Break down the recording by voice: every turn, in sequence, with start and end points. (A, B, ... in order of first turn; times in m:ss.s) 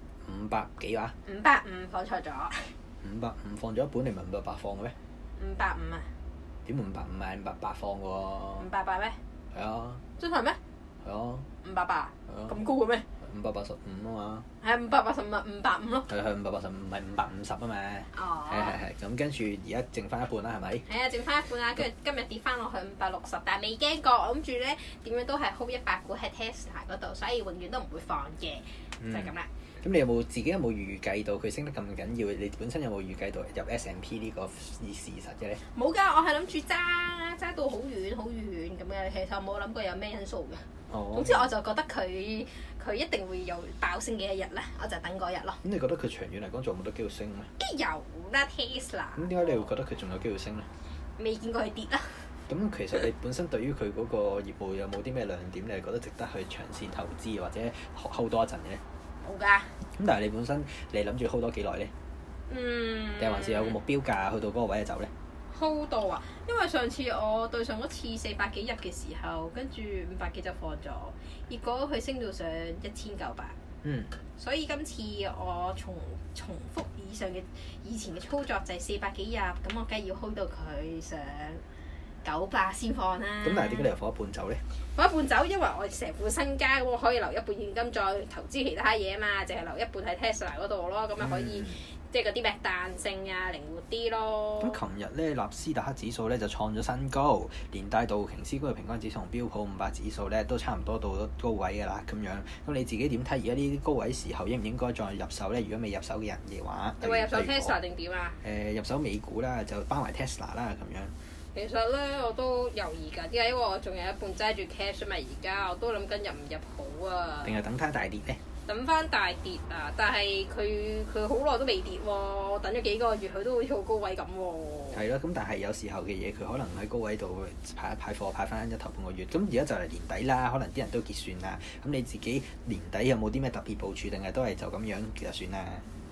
0:00.2-0:01.1 A
0:01.2-0:02.8 B
0:03.0-0:04.9 A
0:05.4-0:06.1 B
0:06.6-0:08.7 A
0:08.6-0:09.2 B
0:09.5-0:10.0 A
0:10.2-0:10.6 B
0:11.0-0:11.4 A
0:11.6-0:13.0 B
0:12.3-0:12.5 A
0:13.2-0:14.4 A
0:14.6-0:16.1 B
0:16.1-0:20.8 A
0:18.1-0:18.8 B
0:20.9-0:29.5 B
0:29.0-0:35.6 A
0:35.7-0:45.6 B
0:40.9-0:41.5 A
0:45.6-0:47.5 A
0:47.6-0:49.7 B
0:49.2-0:50.7 A
0:50.9-0:52.3 B
0:52.5-0:58.8 A
0:59.2-0:59.8 B
0:59.8-1:01.9 A
1:02.5-1:03.8 B
1:03.2-1:05.1 A
1:05.5-1:13.6 B
1:13.8-1:14.1 A
1:14.4-1:21.6 B
1:22.2-1:23.9 B
1:23.4-1:24.6 A
1:24.8-1:34.8 B
1:31.2-1:31.8 A
1:34.6-1:47.8 A
1:47.0-1:48.4 B
1:48.4-1:51.1 A
1:51.5-1:57.6 B
1:57.4-1:58.4 A
1:58.6-2:05.0 B
2:04.9-2:15.8 A